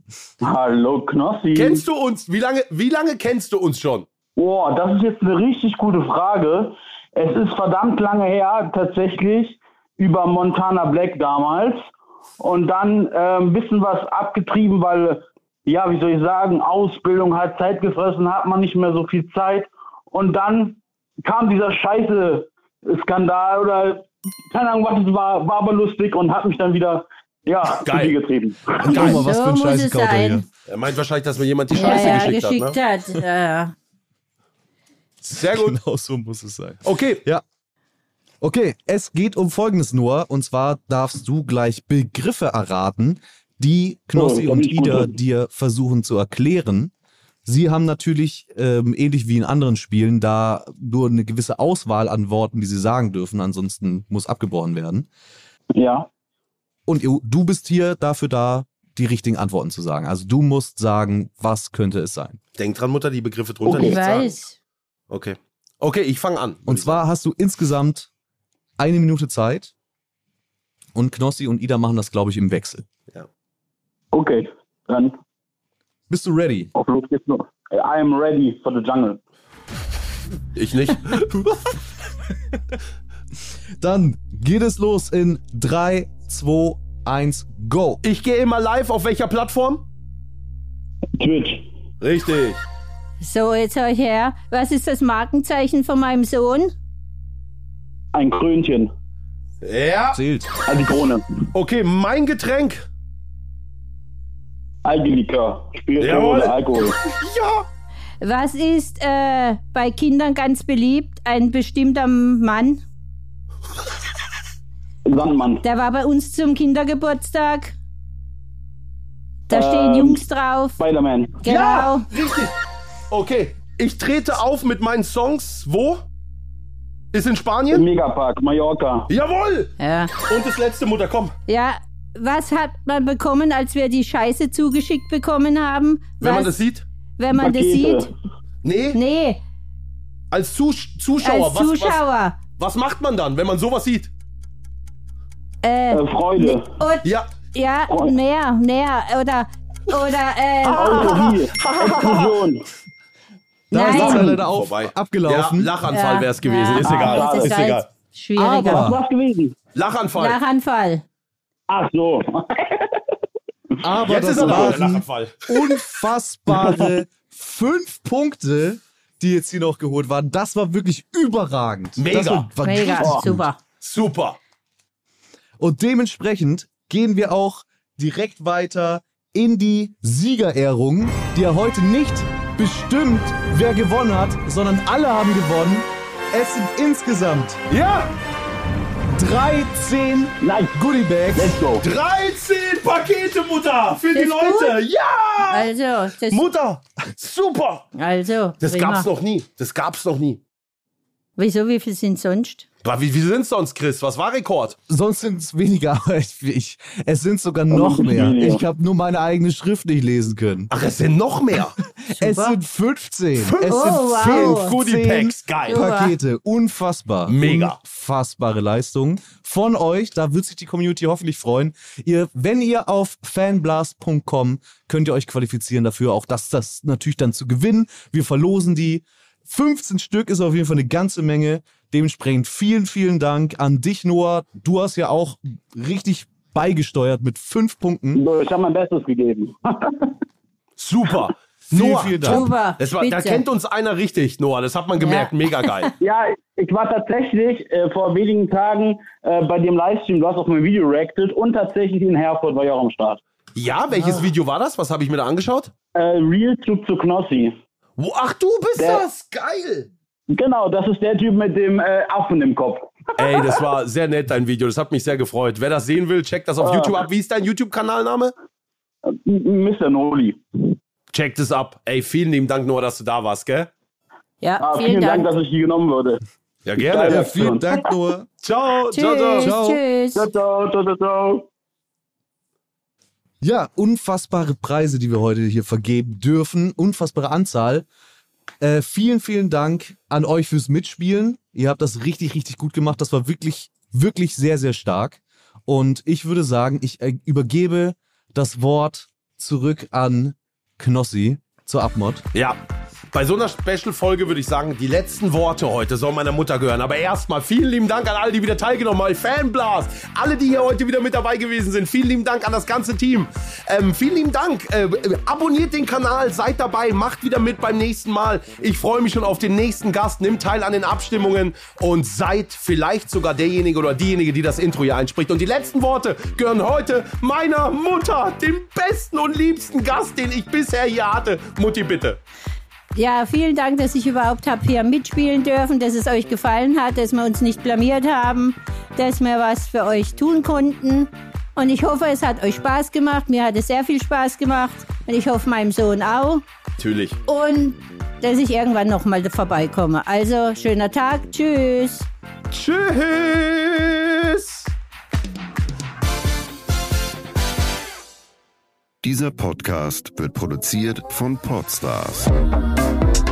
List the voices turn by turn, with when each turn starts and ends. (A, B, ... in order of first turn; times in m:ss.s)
0:00.4-0:01.8 A
0:01.5-0:04.1 B
0:04.4-0:11.8 A
0:12.4-0:29.1 A
0:27.7-0:28.2 B
0:28.8-0:30.4 C
0:28.8-0:30.4 D
0:28.9-0:29.2 B
0:30.7-0:32.8 B
0:31.7-0:33.7 D
0:35.2-0:35.8 B
0:35.4-0:37.4 C
0:36.8-0:37.2 B
0:38.4-0:46.9 C
0:44.1-0:45.2 A
0:47.4-0:55.1 C
0:55.7-0:56.1 A
0:56.8-1:02.4 C
1:02.6-1:04.3 B
1:03.6-1:04.0 A
1:03.7-1:04.5 D
1:05.1-1:07.0 B
1:06.6-1:08.1 C
1:08.8-1:09.7 C
1:10.9-1:12.8 C
1:14.1-1:15.2 A
1:16.1-1:16.7 C
1:16.7-1:19.2 A
1:20.5-1:21.4 B
1:23.8-1:28.0 C
1:28.0-1:29.8 B
1:31.2-1:31.6 A
1:32.0-1:32.6 B
1:33.2-1:36.7 D
1:38.1-1:38.9 A
1:39.6-1:40.2 B
1:40.1-1:40.5 C
1:40.7-1:41.2 A
1:41.5-1:42.9 B
1:44.8-1:47.0 A
1:46.0-1:47.6 B
1:48.2-1:52.8 D
1:55.0-1:55.6 A
1:55.6-1:57.7 D
1:59.5-2:00.2 A
1:59.5-2:00.8 D
2:00.8-2:01.4 A
2:01.4-2:02.1 D
2:01.4-2:02.6 B
2:03.1-2:06.0 B
2:07.1-2:07.8 B
2:07.7-2:09.1 A
2:09.1-2:11.3 B
2:09.8-2:10.1 D
2:11.5-2:16.5 D
2:16.2-2:16.8 B
2:17.2-2:18.1 D
2:17.4-2:18.1 A
2:18.6-2:19.0 B
2:18.9-2:19.4 D
2:20.3-2:22.0 B
2:21.2-2:22.4 D
2:22.6-2:24.1 B
2:25.6-2:31.2 D
2:25.9-2:26.7 A
2:27.0-2:27.3 B
2:27.9-2:28.1 A
2:30.6-2:32.6 A
2:30.7-2:32.4 B
2:33.7-2:34.3 D
2:33.8-2:37.9 B
2:33.8-2:35.7 C
2:35.9-2:38.8 D
2:36.8-2:37.6 A
2:38.4-2:39.0 C
2:38.6-2:39.6 A
2:39.7-2:40.4 B
2:40.2-2:41.0 D
2:41.7-2:42.9 A
2:43.8-2:53.5 C
2:44.0-2:45.8 B
2:44.4-2:44.8 A
2:52.0-2:52.5 B
2:52.6-2:53.6 D
2:53.8-2:54.4 B
2:55.6-3:07.6 C
3:07.7-3:08.1 B
3:09.1-3:11.6 C
3:10.4-3:10.8 A
3:11.3-3:11.8 A
3:11.8-3:15.7 B
3:14.1-3:14.8 D
3:15.5-3:16.4 D
3:16.3-3:17.8 B
3:18.0-3:19.1 D
3:18.6-3:20.4 B
3:21.4-3:22.7 D
3:22.8-3:24.8 B
3:24.9-3:30.7 C
3:27.7-3:28.6 A
3:30.7-3:31.8 B
3:31.8-3:58.2 C
3:32.1-3:32.6 D
3:33.4-3:35.8 B
3:33.6-3:34.7 D
3:35.7-3:36.1 D
3:37.2-3:37.8 B
3:58.1-4:00.1 A
4:00.8-4:05.9 B
4:01.7-4:02.5 C
4:02.2-4:03.4 D
4:05.0-4:05.9 D
4:06.0-4:13.2 A
4:13.5-4:15.7 B
4:15.9-4:17.5 A
4:18.0-4:19.9 B
4:18.8-4:19.0 A
4:20.3-4:23.6 A
4:23.2-4:28.3 B
4:26.6-4:27.0 A
4:29.1-4:30.7 A
4:31.1-4:33.7 B
4:34.4-4:35.3 D
4:34.6-4:36.2 A
4:36.6-4:37.3 B
4:36.8-4:37.9 A
4:36.9-4:38.3 C
4:38.4-4:39.5 B
4:38.9-4:40.3 D
4:39.4-4:39.8 C
4:40.1-4:41.5 A
4:43.4-4:47.8 C
4:48.6-5:02.2 C
5:02.3-5:02.6 B
5:03.1-5:32.2 B
5:32.9-5:46.4 D
5:46.8-5:47.2 B
5:47.2-5:52.1 D
5:52.5-5:54.7 B
5:59.0-6:02.3 E